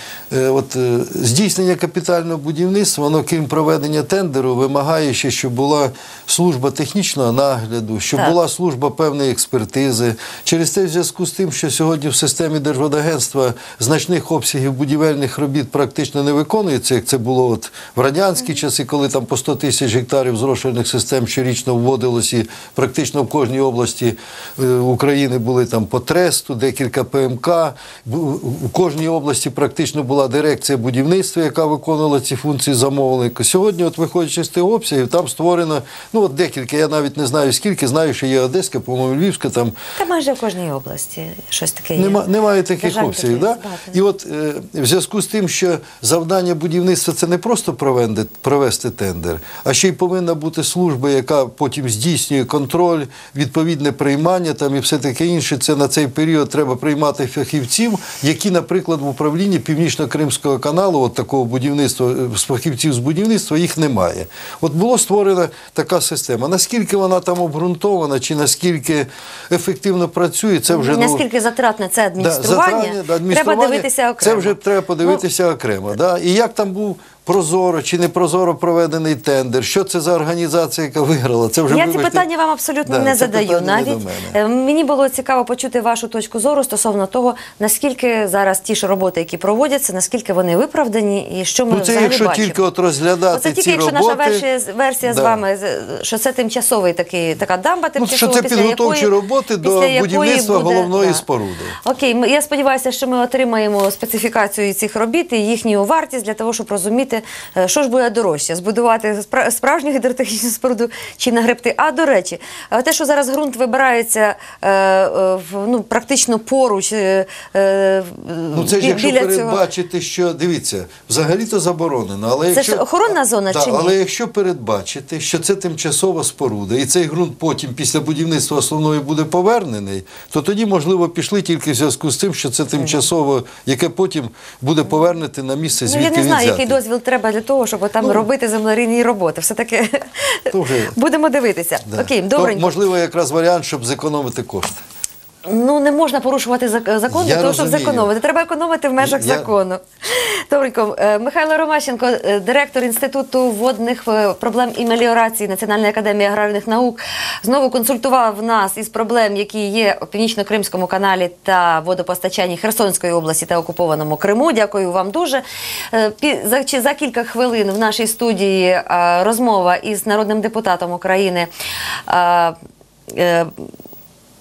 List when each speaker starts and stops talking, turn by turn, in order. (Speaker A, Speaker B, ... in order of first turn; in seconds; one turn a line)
Speaker A: 0.3-39.7
Speaker B: 40.0-42.2
Speaker A: 42.0-71.2
Speaker B: 42.8-44.0
Speaker B: 70.7-75.2
Speaker A: 72.2-82.2
Speaker B: 81.7-92.6
Speaker A: 82.8-84.4
Speaker A: 91.7-94.4
Speaker B: 93.3-99.1
Speaker A: 95.0-95.4
Speaker A: 98.0-101.8
Speaker B: 99.6-101.2
Speaker B: 101.8-119.6
Speaker A: 118.5-136.8
Speaker B: 122.5-123.9
Speaker B: 135.8-140.4
Speaker A: 138.0-138.2
Speaker A: 140.5-140.9
Speaker B: 140.9-142.8
Speaker A: 141.9-144.8
Speaker B: 145.5-171.5
Speaker A: 147.1-148.1
Speaker A: 149.0-149.5
Speaker B: 172.1-172.6
Speaker B: 173.1-173.7